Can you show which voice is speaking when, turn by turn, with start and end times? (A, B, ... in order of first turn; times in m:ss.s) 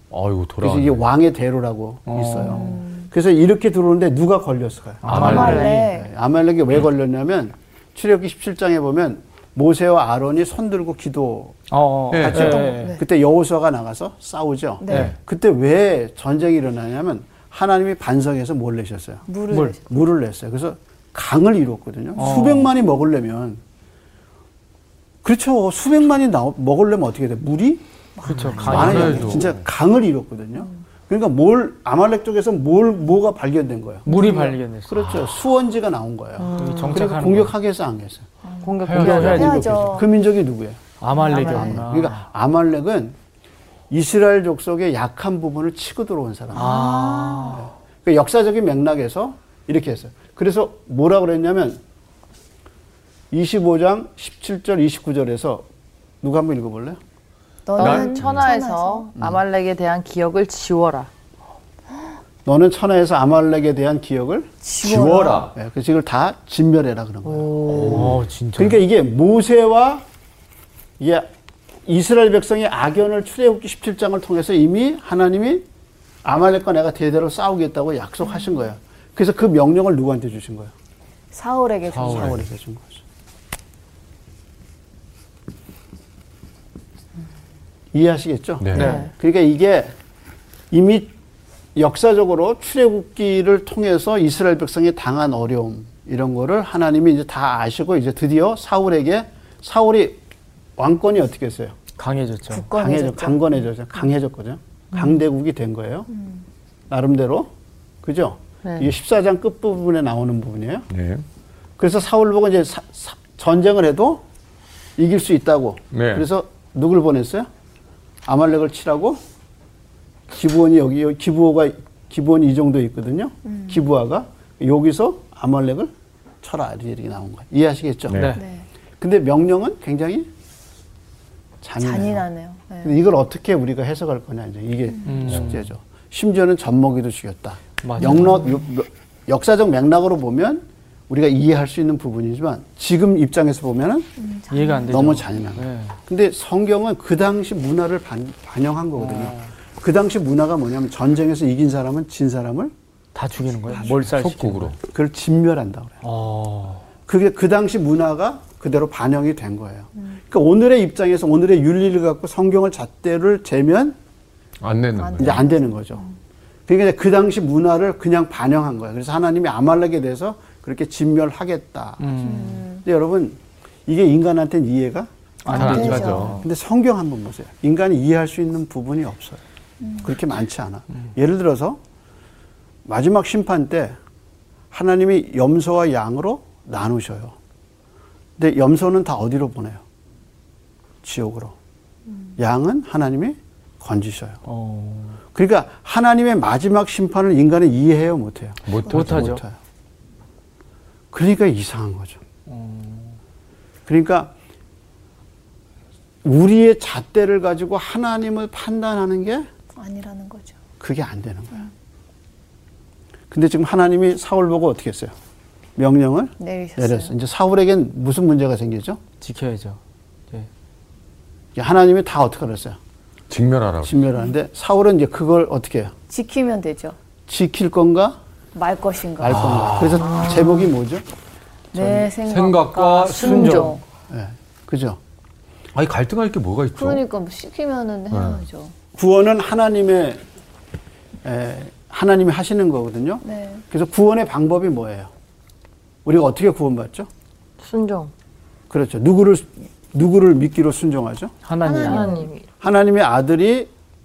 0:00.1-0:01.1 A
0:00.6-0:23.6 B
0:02.1-0:02.8 C
0:02.4-0:03.1 D
0:05.0-0:05.8 C
0:05.0-0:05.7 A
0:05.1-0:06.1 D
0:11.7-0:12.9 C
0:12.1-0:12.6 A
0:12.4-0:13.0 D
0:14.8-0:15.1 D
0:14.9-0:15.2 A
0:19.3-0:19.9 D
0:22.2-0:22.7 C
0:25.2-0:27.8 B
0:28.2-0:29.1 D
0:28.2-0:29.5 C
0:28.3-0:29.6 A
0:28.6-0:38.2 B
0:34.0-0:35.0 C
0:35.0-0:35.3 A
0:36.4-0:37.1 E
0:36.6-0:37.5 C
0:38.4-0:40.1 D
0:38.6-0:39.5 E
0:38.8-0:39.8 A
0:38.9-0:40.8 B
0:41.0-0:42.2 C
0:41.1-0:41.8 E
0:41.4-0:43.2 B
0:43.9-0:46.7 B
0:46.5-0:47.6 D
0:46.5-0:47.6 C
0:47.5-0:51.8 B
0:53.3-0:55.6 B
0:56.2-0:57.0 B
0:57.7-0:59.1 D
0:57.8-1:01.1 E
0:57.8-0:58.5 A
1:02.4-1:04.5 B
1:04.6-1:05.4 D
1:04.8-1:05.5 A
1:05.5-1:10.0 B
1:07.2-1:08.1 E
1:07.9-1:08.8 C
1:11.0-1:11.3 B
1:11.8-1:15.6 B
1:16.2-1:20.7 B
1:21.3-1:22.4 D
1:21.9-1:22.4 A
1:22.0-1:23.0 B
1:27.9-1:29.9 B
1:28.6-1:29.0 A
1:28.7-1:29.0 C
1:28.7-1:29.1 E
1:30.7-1:31.1 B
1:31.7-1:40.2 B
1:40.8-1:41.8 B
1:42.0-1:42.7 C
1:42.5-1:43.6 D
1:42.7-1:46.1 B
1:46.1-1:46.4 D
1:46.9-1:47.5 B
1:48.0-1:50.9 B
1:48.6-1:48.9 E
1:50.9-1:51.2 A
1:51.8-1:54.2 B
1:55.0-1:57.5 B
1:55.9-1:56.2 A
1:58.2-1:59.2 B
2:00.3-2:08.2 B
2:03.4-2:03.8 D
2:08.1-2:08.4 A
2:08.1-2:08.4 C
2:08.3-2:08.7 D
2:09.0-2:10.3 B
2:11.6-2:12.3 B
2:11.8-2:13.0 D
2:12.8-2:24.1 B
2:15.0-2:15.4 D
2:15.0-2:15.7 C
2:17.8-2:18.4 C
2:18.0-2:18.4 D
2:24.2-2:25.0 D
2:24.5-2:25.9 C
2:24.9-2:32.7 B
2:29.0-2:29.5 C
2:33.1-2:34.7 C
2:33.8-2:34.7 A
2:34.8-2:36.0 B
2:36.0-2:36.8 C
2:37.0-2:44.0 B
2:44.6-2:45.5 A
2:45.0-2:46.1 D
2:45.2-2:46.0 B
2:46.7-2:52.2 B
2:52.0-2:52.7 C
2:52.1-2:52.8 D
2:52.8-2:59.4 B
2:55.4-2:56.4 A
2:55.5-2:56.2 C
2:55.5-2:56.5 D
2:59.8-3:00.1 D
3:00.0-3:01.8 B
3:02.9-3:04.0 B
3:04.7-3:07.4 B
3:08.4-3:09.8 B
3:11.0-3:11.5 B
3:12.4-3:14.4 B
3:14.4-3:15.2 C
3:15.3-3:19.6 B
3:18.6-3:19.4 A
3:18.9-3:19.4 C
3:21.1-3:22.2 B
3:22.5-3:23.2 C
3:23.9-3:24.3 B
3:26.2-3:29.5 B
3:29.8-3:30.6 D
3:30.8-3:31.6 B
3:33.3-3:35.1 B
3:35.8-3:39.0 B
3:36.4-3:37.1 D
3:39.2-3:39.8 C
3:41.5-3:42.8 B
3:43.3-3:44.0 A
3:43.8-3:45.9 B
3:46.1-3:47.0 D
3:47.3-3:48.2 B
3:48.5-3:49.4 D
3:49.2-3:51.0 B
3:49.2-3:50.2 A
3:50.0-3:50.7 D
3:50.0-3:50.7 E
3:51.7-3:52.1 B
3:51.7-3:53.8 D
3:52.3-3:53.8 A
3:53.1-3:53.7 E
3:53.2-3:53.7 C
3:54.1-3:55.0 B
3:55.8-3:57.0 A
3:56.8-3:58.7 D
3:58.1-3:58.4 A
3:59.0-4:00.2 B
4:01.2-4:05.1 B
4:03.2-4:03.6 D
4:06.0-4:07.1 B
4:07.6-4:08.1 E
4:08.7-4:11.4 B
4:11.4-4:12.2 C
4:11.6-4:12.3 D
4:11.8-4:12.4 E
4:12.6-4:13.7 B